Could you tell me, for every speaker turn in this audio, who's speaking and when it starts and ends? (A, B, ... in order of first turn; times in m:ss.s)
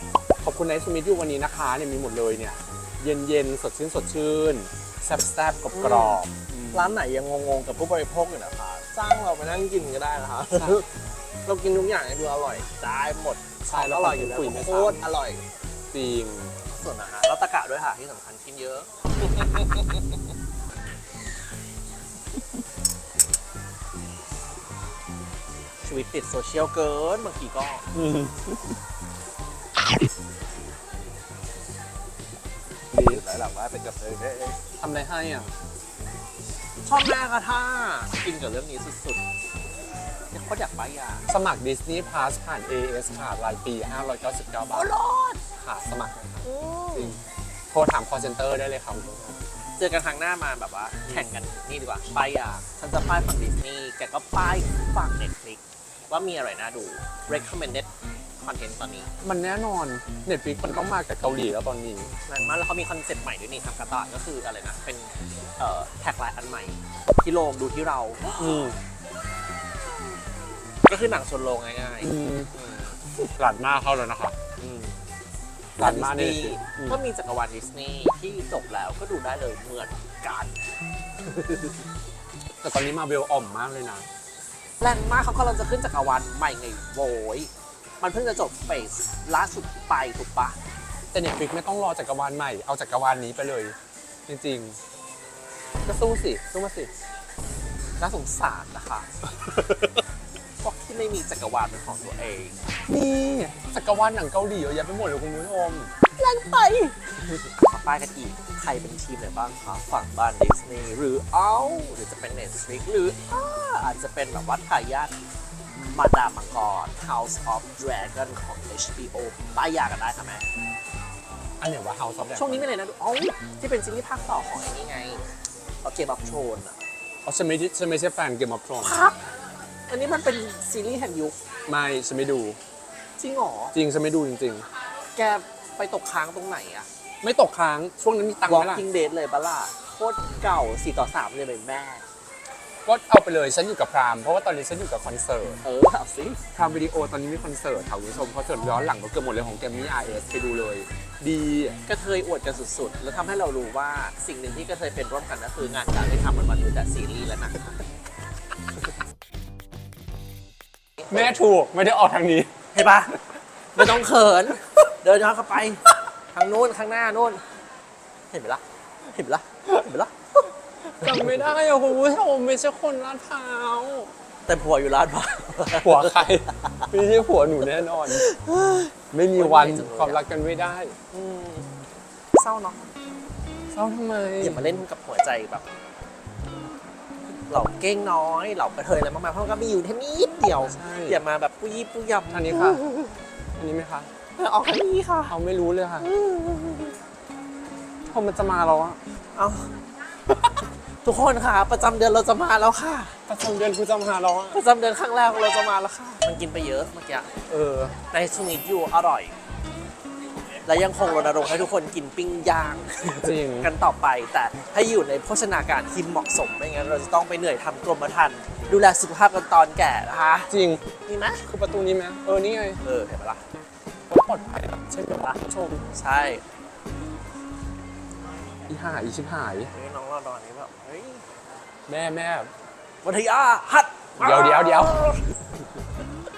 0:00.4-0:07.0 A
0:05.7-0:06.2 B
0:06.7-0:10.8 B
0:10.5-0:10.8 A
0:11.5-0:15.4 B
0:13.6-0:15.0 A
0:15.9-0:16.6 A
0:16.7-0:20.1 B
0:25.8-0:27.9 B
0:27.9-0:28.8 A
0:32.9-0:33.2 A
0:33.0-0:34.6 B
0:34.8-0:35.5 A
0:36.8-0:39.2 B
0:40.3-0:41.3 B
0:41.3-0:44.9 A
0:44.7-0:45.4 B
0:45.6-0:47.2 A
0:46.4-0:47.2 B
0:47.7-0:49.4 A
0:49.8-0:59.1 B
0:59.2-1:02.1 A
1:02.3-1:08.7 B
1:08.4-1:08.8 A
1:10.9-1:13.0 B
1:12.0-1:12.5 A
1:13.2-1:14.4 A
1:14.6-1:15.1 B
1:15.8-1:20.6 B
1:15.8-1:17.0 A
1:21.2-1:21.8 B
1:22.6-1:24.1 A
1:24.8-1:30.6 B
1:31.1-1:33.8 A
1:34.3-1:34.8 A
1:35.8-1:36.9 A
1:38.0-1:39.1 B
1:39.5-1:39.8 A
1:40.6-1:42.6 B
1:42.9-1:45.9 A
1:46.2-1:55.1 B
1:55.7-2:00.5 B
2:01.6-2:02.7 A
2:02.2-2:05.3 B
2:05.8-2:06.8 B
2:07.2-2:09.0 A
2:08.8-2:09.2 B
2:09.9-2:11.4 B
2:11.7-2:12.6 A
2:13.2-2:13.8 B
2:13.7-2:14.7 A
2:15.2-2:16.9 B
2:17.2-2:18.9 A
2:18.5-2:22.1 B
2:22.8-2:25.6 A
2:25.6-2:26.4 B
2:26.5-2:31.8 A
2:31.9-2:37.8 B
2:41.1-2:42.5 A
2:42.7-2:43.2 B
2:43.7-2:47.4 B
2:48.3-2:51.3 B
2:51.0-2:54.1 A
2:54.5-2:56.9 B
2:55.8-2:58.3 A
2:57.8-3:00.2 B
2:59.1-3:01.0 A
3:01.1-3:01.8 B
3:02.3-3:02.9 B
3:03.7-3:04.8 A
3:04.4-3:05.7 B
3:07.5-3:13.2 B
3:10.6-3:11.2 A
3:12.3-3:12.8 A
3:13.6-3:14.1 A
3:14.4-3:15.4 B
3:15.3-3:16.1 A
3:16.0-3:17.0 B
3:18.1-3:19.0 A
3:19.4-3:19.8 B
3:20.5-3:23.2 B
3:23.3-3:24.6 A
3:24.5-3:27.3 B
3:27.5-3:28.0 A
3:28.1-3:29.4 B
3:30.7-3:41.4 B
3:33.2-3:33.7 A
3:40.5-3:40.8 A
3:41.4-3:42.8 A
3:42.8-3:43.4 B
3:44.1-3:45.9 A
3:45.9-3:46.4 B
3:48.7-3:49.7 A
3:49.7-3:51.3 B
3:51.9-3:52.5 A
3:53.0-3:55.3 B
3:54.2-3:55.1 A